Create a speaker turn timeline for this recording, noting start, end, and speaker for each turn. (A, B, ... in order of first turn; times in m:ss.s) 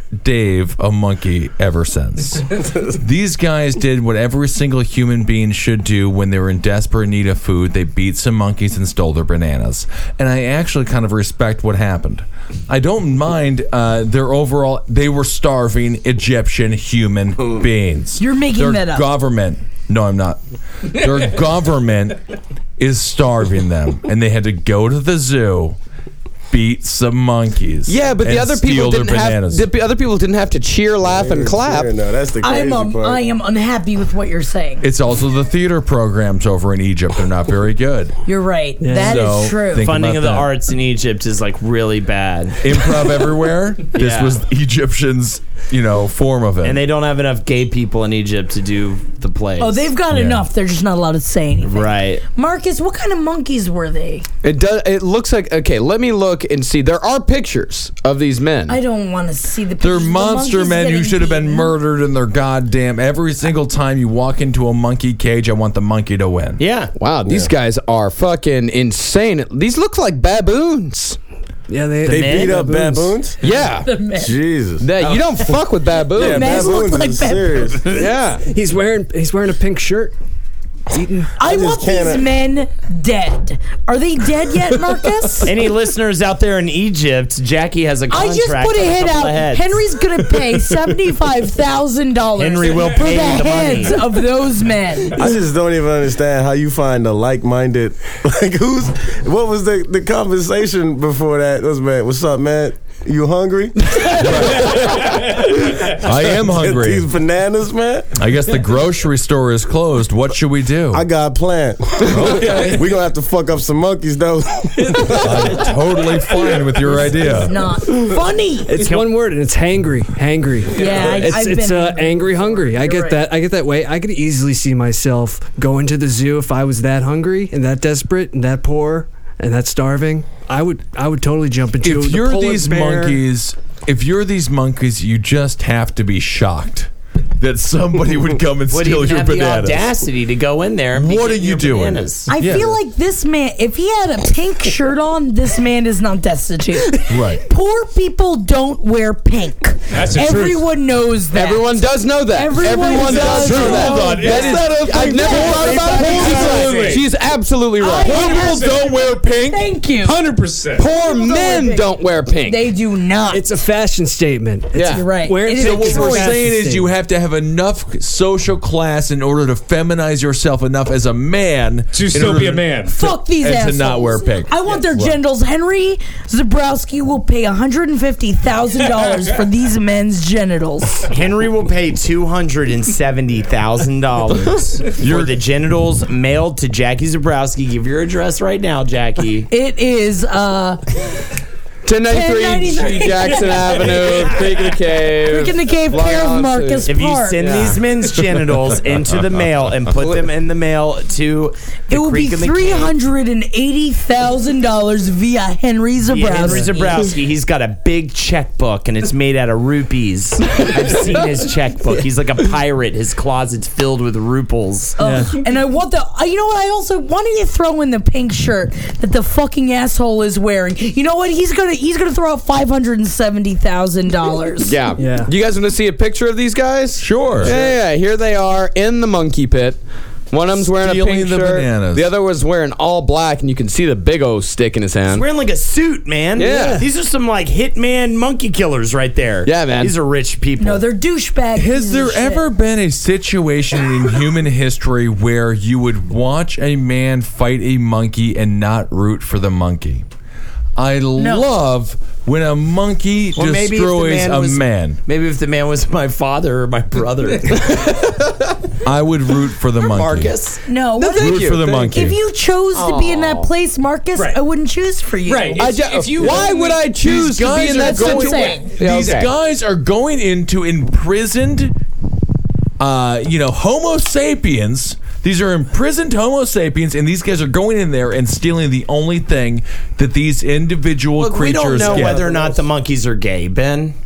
0:00.2-0:22.2 A
0:18.2-0:19.1 B
0:22.8-0:25.8 A
0:26.5-0:29.7 A
0:27.9-0:31.9 C
0:31.0-0:33.2 D
0:32.4-0:34.9 B
0:34.8-0:38.2 A
0:38.3-0:39.9 B
0:38.8-0:39.2 E
0:38.9-0:40.5 A
0:39.7-0:43.1 F
0:42.6-0:46.8 A
0:43.9-0:44.4 F
0:46.6-0:49.9 F
0:49.6-0:54.2 B
0:50.1-0:50.5 A
0:51.6-0:52.2 F
0:54.4-0:58.8 C
0:58.7-1:01.7 B
0:59.8-1:06.6 A
1:06.6-1:06.9 F
1:06.9-1:11.2 C
1:07.2-1:07.5 D
1:11.7-1:13.2 E
1:12.0-1:12.6 F
1:12.1-1:13.4 D
1:13.4-1:13.9 C
1:13.5-1:14.3 B
1:14.2-1:14.9 D
1:14.8-1:16.7 C
1:16.1-1:17.9 D
1:16.2-1:17.8 B
1:17.9-1:18.4 C
1:18.0-1:20.1 E
1:20.9-1:21.3 E
1:21.4-1:25.5 B
1:21.4-1:22.3 D
1:25.4-1:29.7 F
1:28.1-1:35.2 B
1:32.4-1:34.0 F
1:35.1-1:45.4 D
1:44.1-1:45.1 A
1:45.9-1:47.1 A
1:46.2-1:48.1 D
1:48.2-1:51.0 A
1:50.9-1:55.6 D
1:52.0-1:52.8 A
1:55.0-1:57.6 A
1:57.4-1:58.7 B
1:58.7-2:13.2 E
1:58.8-1:59.1 F
2:00.7-2:03.2 B
2:11.8-2:19.9 A
2:18.7-2:22.3 F
2:20.9-2:22.8 A
2:22.3-2:36.5 B
2:27.1-2:27.4 A
2:29.9-2:30.6 G
2:31.3-2:38.3 C
2:32.7-2:37.0 A
2:33.5-2:34.6 G
2:35.6-2:37.0 E
2:35.9-2:37.0 G
2:37.8-2:40.2 B
2:38.0-2:39.7 A
2:38.1-2:38.9 G
2:40.0-2:40.9 G
2:40.8-2:42.7 C
2:40.8-2:41.9 B
2:42.4-2:43.4 B
2:43.3-2:46.9 E
2:44.7-2:45.0 C
2:44.9-2:46.3 B
2:45.5-2:55.2 A
2:45.7-2:46.3 F
2:51.9-2:52.9 G
2:52.9-3:01.0 B
3:01.1-3:09.5 F
3:05.0-3:05.3 A
3:09.5-3:10.9 B
3:11.8-3:17.8 C
3:12.1-3:14.4 B
3:15.2-3:17.7 B
3:16.8-3:22.9 F
3:21.9-3:27.0 B
3:26.0-3:35.0 F
3:35.0-3:44.8 B
3:35.0-3:35.3 E
3:44.6-3:49.8 C
3:45.0-3:45.3 E
3:47.0-3:47.6 A
3:47.4-3:47.7 E
3:50.3-3:55.2 C
3:50.6-3:52.1 A
3:55.0-4:00.8 F
3:56.4-3:56.8 C
3:56.4-3:56.8 E
3:59.4-3:59.9 C
4:00.6-4:02.4 B
4:01.6-4:10.0 A
4:10.8-4:15.0 A
4:11.2-4:11.5 B
4:13.3-4:18.3 F
4:18.8-4:20.4 A
4:19.8-4:20.6 F
4:20.6-4:25.7 B
4:21.0-4:22.0 C
4:21.2-4:22.2 A
4:22.8-4:23.4 C
4:25.2-4:26.9 G
4:25.6-4:29.3 C
4:26.9-4:31.8 A
4:27.7-4:28.7 B
4:32.8-4:42.3 A
4:41.1-4:43.9 F
4:41.8-4:42.4 D